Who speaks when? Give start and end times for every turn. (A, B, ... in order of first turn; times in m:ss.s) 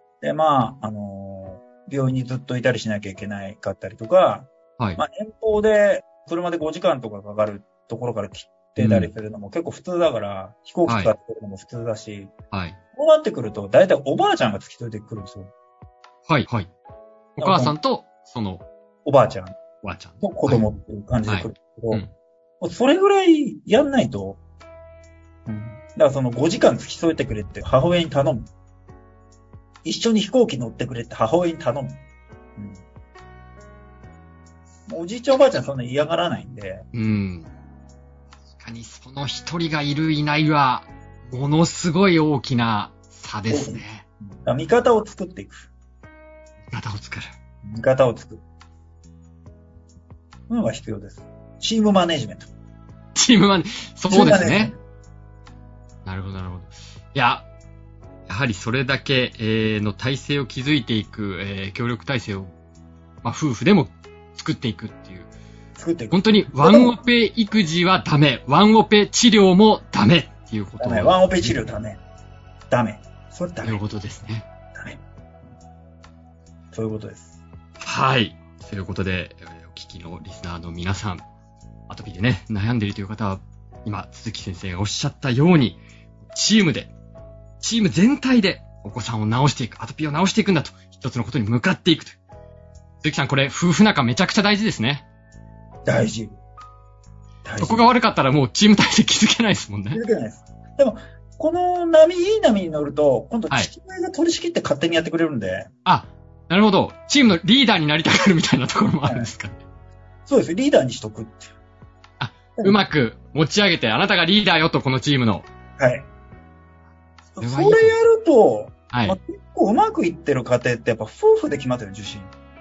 0:00.2-0:12.3 A
0:08.8-0:09.1 B
0:10.8-0:11.1 B
0:12.5-0:12.8 B
0:12.9-0:15.5 A
0:16.3-0:16.7 B
0:17.4-0:18.6 B
0:17.4-0:17.8 A
0:19.0-0:19.5 A
0:19.8-0:20.6 B
0:20.2-0:22.0 A
0:21.3-0:22.1 B
0:22.6-0:24.4 A
0:25.5-0:28.5 A
0:29.8-0:32.0 A
0:32.6-0:32.8 A
0:34.9-0:36.8 A
0:36.9-0:37.5 B
0:38.6-0:44.0 B
0:43.5-0:43.8 A
0:44.4-0:45.7 A
0:46.7-0:47.3 B
0:47.6-0:48.4 A
0:50.5-0:52.5 A
0:53.2-0:54.7 B
0:54.1-0:54.8 A
0:56.0-0:57.5 B
0:58.3-1:02.5 B
1:03.2-1:05.3 B
1:05.8-1:07.0 A
1:06.1-1:11.5 B
1:10.8-1:12.0 A
1:12.7-1:13.8 A
1:13.6-1:14.5 B
1:14.7-1:15.0 A
1:16.7-1:17.4 A
1:17.8-1:21.2 B
1:21.9-1:26.9 B
1:27.6-1:32.2 B
1:33.0-1:35.0 B
1:35.8-1:36.3 A
1:37.4-1:37.9 A
1:37.6-1:40.0 B
1:39.9-1:45.7 A
1:45.8-1:49.6 B
1:50.3-1:51.5 A
1:52.2-1:55.5 B
1:55.8-1:56.0 A
1:57.4-2:02.3 A
1:57.4-1:58.0 B
1:58.9-1:59.2 B